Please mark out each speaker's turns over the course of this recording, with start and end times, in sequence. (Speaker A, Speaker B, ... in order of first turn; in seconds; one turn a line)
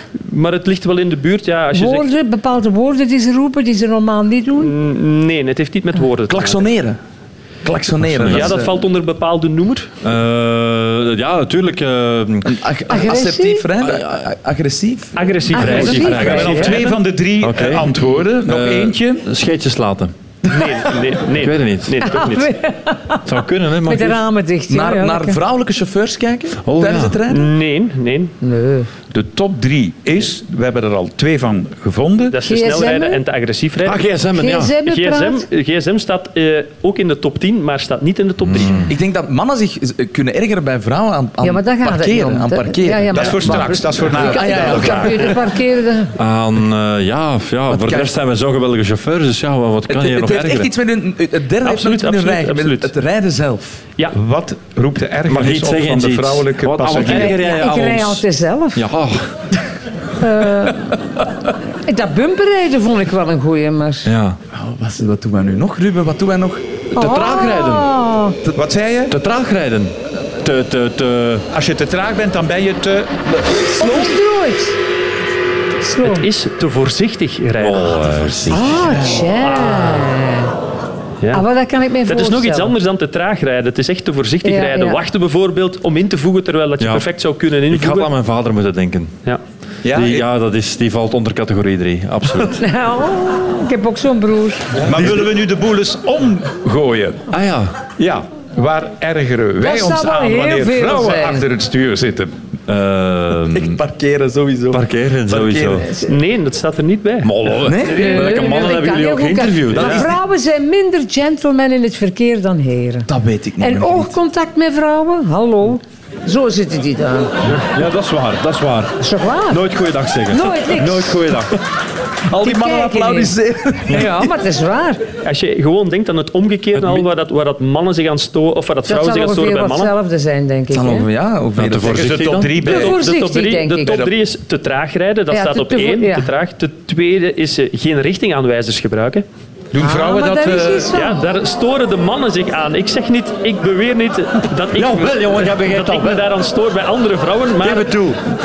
Speaker A: 0.2-2.1
Speaker B: 1.7-4.7
Speaker A: 4.6-6.7
Speaker C: 6.3-7.0
Speaker C: 7.6-8.7
Speaker D: 8.0-8.6
Speaker A: 8.2-9.9
Speaker D: 10.0-12.7
Speaker C: 12.4-15.3
Speaker B: 12.9-13.7
Speaker D: 13.8-14.1
Speaker A: 15.2-16.9
Speaker B: 15.5-16.8
Speaker D: 15.5-16.8
Speaker E: 16.1-19.3
Speaker D: 17.4-20.1
Speaker A: 20.5-22.5
Speaker D: 21.3-22.1
Speaker B: 22.0-23.2
Speaker D: 23.3-24.2
Speaker B: 23.9-25.4
Speaker C: 24.7-27.5
Speaker D: 26.6-27.2
Speaker A: 27.3-28.3
Speaker B: 28.4-28.9
Speaker E: 29.1-32.4
Speaker A: 32.3-34.0
Speaker B: 32.4-33.2
Speaker D: 33.8-34.7
Speaker B: 34.4-35.5
Speaker A: 34.8-38.9
Speaker D: 38.4-38.9
Speaker C: 38.9-45.4
Speaker B: 41.4-46.2
Speaker E: 43.1-45.2
Speaker D: 46.2-50.7
Speaker C: 47.7-48.1
Speaker C: 49.9-53.8
Speaker A: 51.6-52.9
Speaker E: 54.1-57.4
Speaker D: 55.3-58.2
Speaker B: 57.0-58.8
Speaker D: 58.8-59.3
Speaker B: 60.2-60.9
Speaker B: 61.8-64.1
Speaker D: 64.1-64.4
Speaker C: 64.5-66.6
Speaker D: 66.9-67.9
Speaker B: 67.0-68.4
Speaker E: 68.5-69.2
Speaker D: 69.1-71.5
Speaker E: 71.5-73.2
Speaker C: 73.6-74.1
Speaker B: 73.8-74.8
Speaker B: 75.8-76.3
Speaker A: 76.0-78.6
Speaker D: 77.6-78.9
Speaker B: 78.5-80.5
Speaker A: 79.2-80.1
Speaker A: 81.2-81.5
Speaker B: 81.3-82.7
Speaker A: 82.1-88.1
Speaker B: 84.4-85.0
Speaker D: 86.8-87.1
Speaker D: 87.7-89.2
Speaker E: 89.8-90.3
Speaker D: 90.0-92.6
Speaker B: 92.6-94.7
Speaker E: 94.8-97.3
Speaker C: 94.9-95.3
Speaker D: 97.3-97.8
Speaker E: 98.0-102.3
Speaker B: 99.6-101.5
Speaker D: 102.7-103.8
Speaker C: 103.5-105.9
Speaker D: 104.7-105.9
Speaker A: 106.0-107.3
Speaker D: 107.2-110.1
Speaker C: 107.6-108.8
Speaker B: 107.8-117.3
Speaker C: 109.7-110.1
Speaker C: 113.1-114.1
Speaker D: 117.6-119.0
Speaker B: 119.0-119.6
Speaker D: 119.5-121.6
Speaker B: 120.3-121.3
Speaker C: 122.3-124.3
Speaker B: 122.4-123.3
Speaker B: 123.9-125.0
Speaker A: 125.2-129.9
Speaker D: 126.8-127.0
Speaker B: 128.9-131.1
Speaker C: 130.7-132.1
Speaker D: 131.6-132.6
Speaker E: 131.8-133.0
Speaker A: 132.6-139.2
Speaker B: 132.6-134.0
Speaker E: 133.9-134.1
Speaker B: 135.3-136.3
Speaker E: 139.7-140.9
Speaker B: 139.8-141.2
Speaker A: 140.9-147.9
Speaker D: 144.7-146.3
Speaker D: 147.6-148.2